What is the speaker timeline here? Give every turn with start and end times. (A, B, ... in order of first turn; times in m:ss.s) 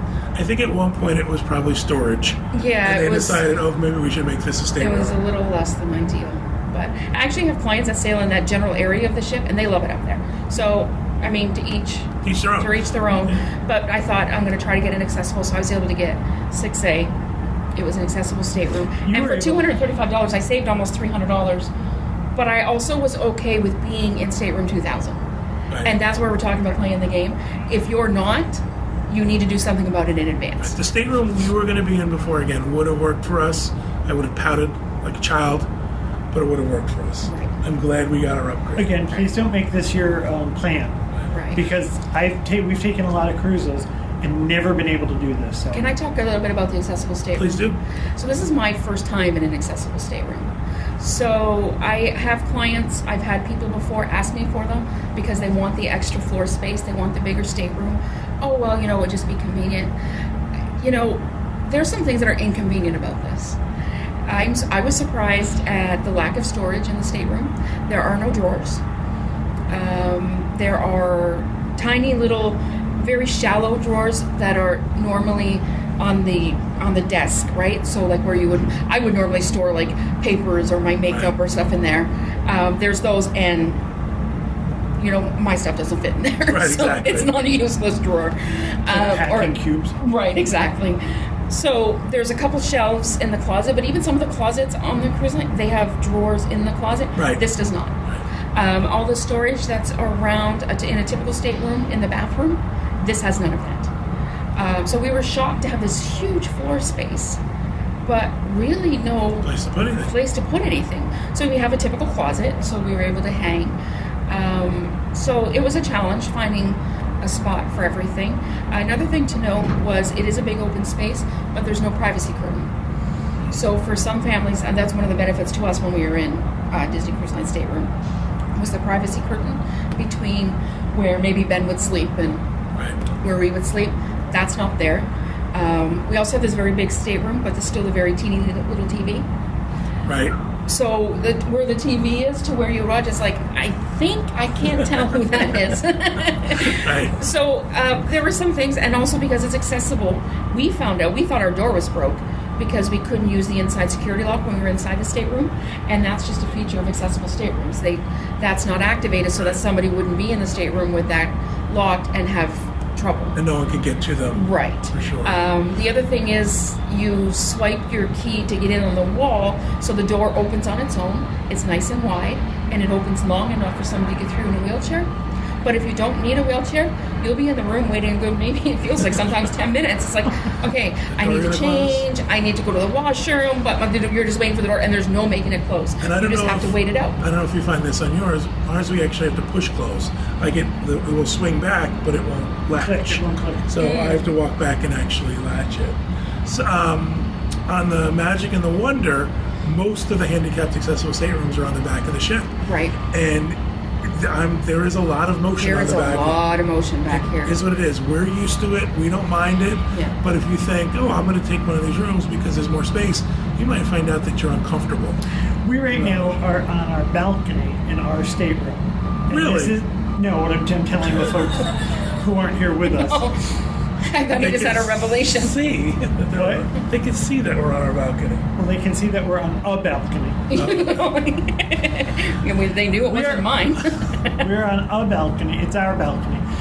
0:00.3-0:05.2 A
0:02.5-0:03.4 B
0:04.8-0:17.1 B
0:12.2-0:13.3 A
0:17.8-0:21.7 B
0:19.0-0:19.7 C
0:22.3-0:25.2 B
0:25.8-0:30.8 B
0:30.6-0:35.7 A
0:36.3-0:39.0 A
0:37.2-0:37.6 B
0:38.8-0:41.0 C
0:41.3-0:41.6 B
0:41.5-0:45.9 C
0:45.7-0:59.9 B
0:47.4-0:47.8 A
1:00.8-1:03.6 B
1:04.3-1:08.8 B
1:09.7-1:23.8 B
1:25.0-1:38.0 B
1:26.5-1:27.3 A
1:28.9-1:29.9 C
1:37.2-1:37.4 A
1:38.5-1:43.9 B
1:44.6-1:47.4 B
1:48.0-1:53.8 B
1:49.4-1:50.1 A
1:54.3-2:02.7 B
2:03.5-2:07.9 B
2:08.5-2:12.4 B
2:13.1-2:19.3 B
2:20.1-2:20.3 A
2:20.6-2:43.4 B
2:26.5-2:27.1 A
2:43.4-2:45.4 A
2:44.3-2:55.1 B
2:55.6-3:07.2 B
3:01.1-3:02.0 A
3:06.0-3:22.5 A
3:12.8-3:13.7 C
3:13.8-3:14.2 B
3:22.6-3:23.0 B
3:23.1-3:26.4 A
3:25.6-3:27.6 B
3:27.1-3:35.2 A
3:35.6-3:43.3 C
3:35.9-3:36.3 A
3:39.3-3:39.7 A
3:42.8-3:45.6 B
3:44.4-3:48.4 A
3:46.3-3:46.7 C
3:48.6-3:50.6 C
3:50.5-3:54.4 B
3:50.6-3:51.0 A
3:53.1-3:53.6 C
3:54.4-3:56.4 C